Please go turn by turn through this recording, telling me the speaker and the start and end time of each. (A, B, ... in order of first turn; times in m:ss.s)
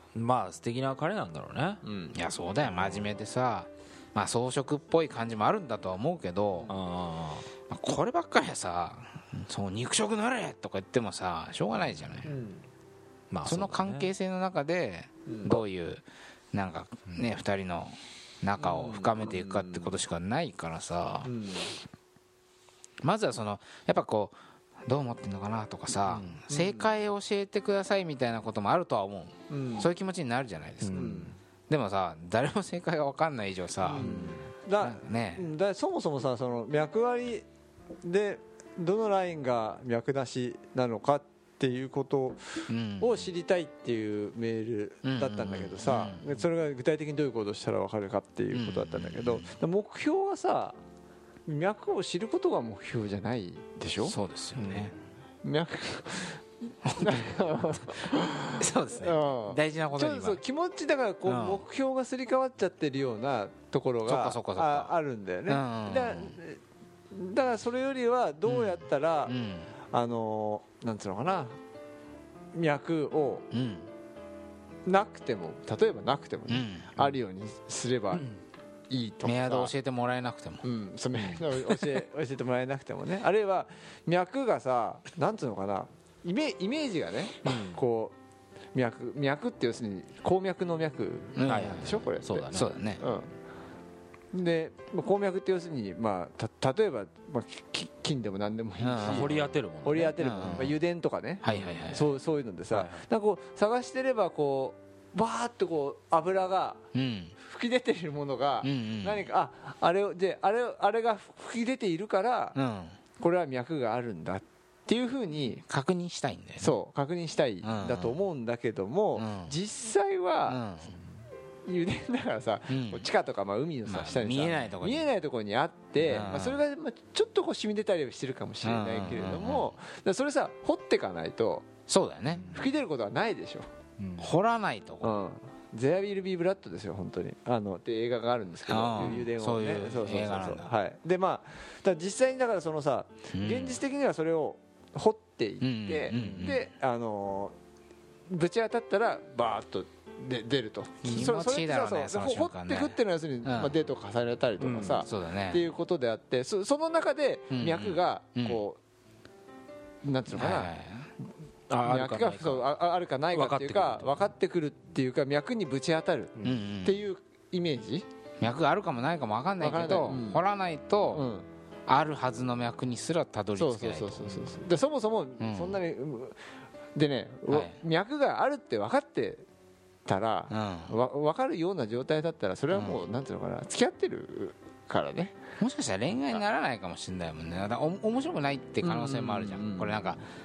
0:00.2-0:01.8 A
0:01.8-0:02.2 B
0:02.1-0:06.7 C
0:02.7-0:03.1 A
0:06.7-0:07.5 A
0:07.7-0:12.3 C
0:12.2-0:12.6 B
0:13.3-0:14.1 A
0:13.4-0:21.3 C
0:15.3-0:15.6 B
0:18.6-0:20.0 B
0:21.2-0:21.8 B
0:23.0-0:34.1 C
0:26.0-0:26.4 A
0:26.5-0:26.9 B
0:29.5-0:29.9 B
0:30.8-0:31.3 A
0:31.0-0:31.4 B
0:33.8-0:37.5 B
0:34.0-0:34.4 A
0:34.8-0:35.4 C
0:38.0-0:50.8 B
0:42.7-0:43.3 C
0:45.0-0:46.4 C
0:48.5-0:49.5 C
0:51.5-0:54.2 B
0:54.1-0:55.0 C
0:54.6-0:54.9 A
0:55.4-0:56.4 B
0:56.9-0:57.3 C
0:57.0-1:06.6 B
0:58.6-1:00.4 C
1:01.3-1:01.6 C
1:04.1-1:04.9 C
1:05.5-1:06.4 C
1:07.1-1:09.4 B
1:08.5-1:09.7 C
1:09.9-1:11.6 B
1:12.5-1:13.5 B
1:13.5-1:13.9 C
1:14.8-1:18.3 B
1:16.5-1:17.1 C
1:18.9-1:19.7 B
1:19.2-1:20.6 C
1:20.6-1:28.2 B
1:27.4-1:27.8 A
1:28.7-1:33.3 B
1:31.4-1:33.0 C
1:31.4-1:32.9 A
1:34.3-1:46.8 B
1:38.8-1:39.3 C
1:39.1-1:40.7 A
1:40.2-1:40.8 C
1:41.4-1:42.1 C
1:41.5-1:42.0 A
1:42.7-1:43.0 A
1:46.9-1:47.4 C
1:47.4-1:52.6 B
1:48.6-1:49.2 C
1:52.6-1:53.0 C
1:53.2-1:55.6 B
1:55.6-1:56.8 C
1:56.6-2:00.6 B
1:57.6-1:58.2 C
1:59.2-1:59.5 C
2:00.5-2:01.0 C
2:01.6-2:11.7 B
2:02.7-2:03.1 C
2:03.9-2:05.1 C
2:06.0-2:06.6 C
2:08.6-2:09.7 C
2:11.9-2:12.5 C
2:12.4-2:12.7 A
2:12.5-2:13.7 B
2:14.0-2:14.3 A
2:14.2-2:15.1 C
2:15.0-2:27.6 B
2:18.7-2:20.7 C
2:23.3-2:23.8 C
2:25.6-2:26.6 C
2:26.1-2:26.6 A
2:28.3-2:38.8 B
2:31.0-2:33.8 C
2:34.6-2:35.1 A
2:35.0-2:35.6 C
2:37.5-2:38.6 C
2:40.0-2:40.7 B
2:40.3-2:41.1 C
2:41.7-2:42.7 A
2:41.8-2:48.0 B
2:43.3-2:44.3 A
2:46.4-2:46.6 A
2:46.4-2:47.0 C
2:48.4-2:51.3 C
2:49.6-2:50.4 B
2:51.1-2:51.5 B
2:51.9-2:54.6 C
2:53.6-2:56.4 B
2:55.4-2:55.8 C
2:57.0-2:59.4 B
2:57.5-2:57.8 C
3:00.1-3:05.4 B
3:00.5-3:00.9 C
3:02.7-3:03.0 C
3:05.6-3:10.2 C
3:08.8-3:10.2 B